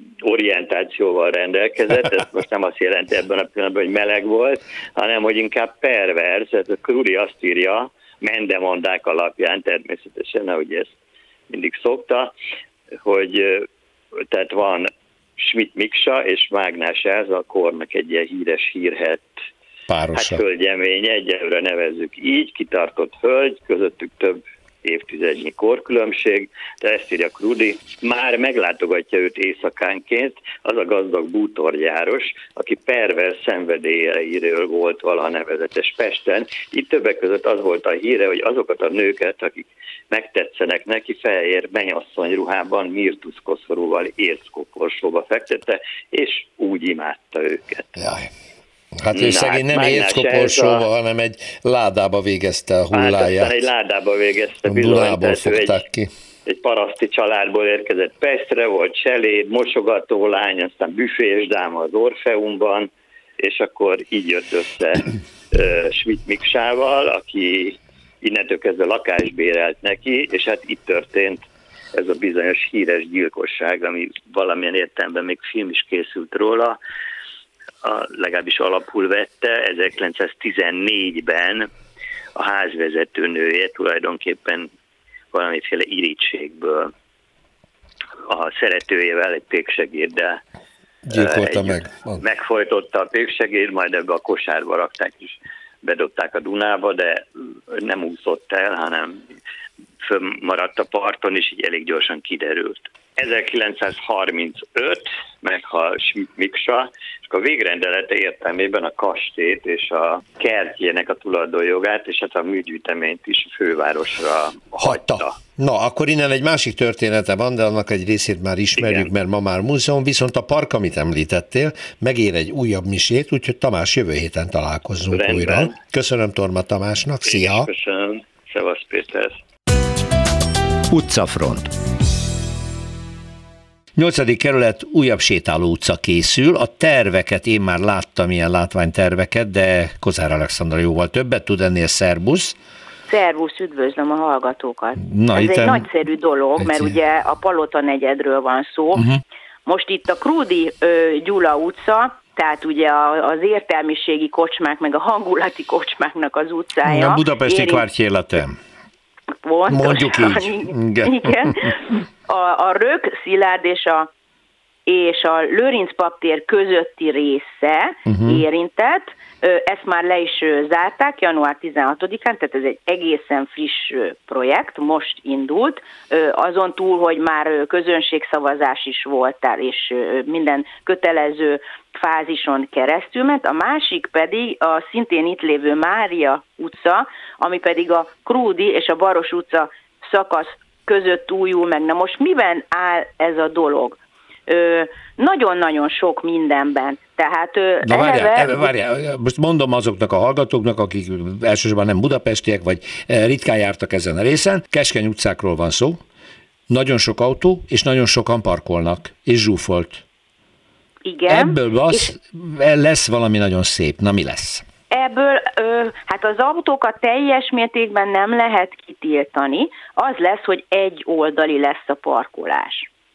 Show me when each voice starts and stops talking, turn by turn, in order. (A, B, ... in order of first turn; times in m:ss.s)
0:00.2-0:10.9 A
0:11.5-0:12.3 A
0:13.0-0:13.7 A
0:14.3-0:19.3 A
0:19.9-0:20.4 B
0:20.1-0:47.8 A
0:49.0-0:53.5 B
0:49.1-0:50.9 A
0:52.9-0:55.8 A
0:54.6-0:56.1 B
0:56.4-1:11.4 A
1:11.9-1:16.8 A
1:17.8-1:21.7 A
1:22.4-1:24.7 A
1:25.3-1:26.9 A
1:28.2-1:30.4 A
1:31.1-1:39.2 A
1:31.1-1:32.1 B
1:40.0-1:55.4 A
1:54.8-2:07.7 B
1:58.8-1:59.1 A
2:05.1-2:05.8 A
2:07.2-2:09.4 A
2:10.9-2:11.7 B
2:14.0-2:22.5 B
2:23.1-2:29.1 C
2:25.0-2:25.8 B
2:26.6-2:26.9 B
2:29.6-2:37.8 C
2:36.8-2:38.6 B
2:39.4-2:44.1 C
2:39.7-2:41.3 B
2:44.8-3:18.7 C
2:48.1-2:48.4 B
3:17.8-3:26.0 B
3:26.7-3:30.0 B
3:31.0-3:32.1 C
3:31.3-3:34.6 B
3:34.9-3:42.9 C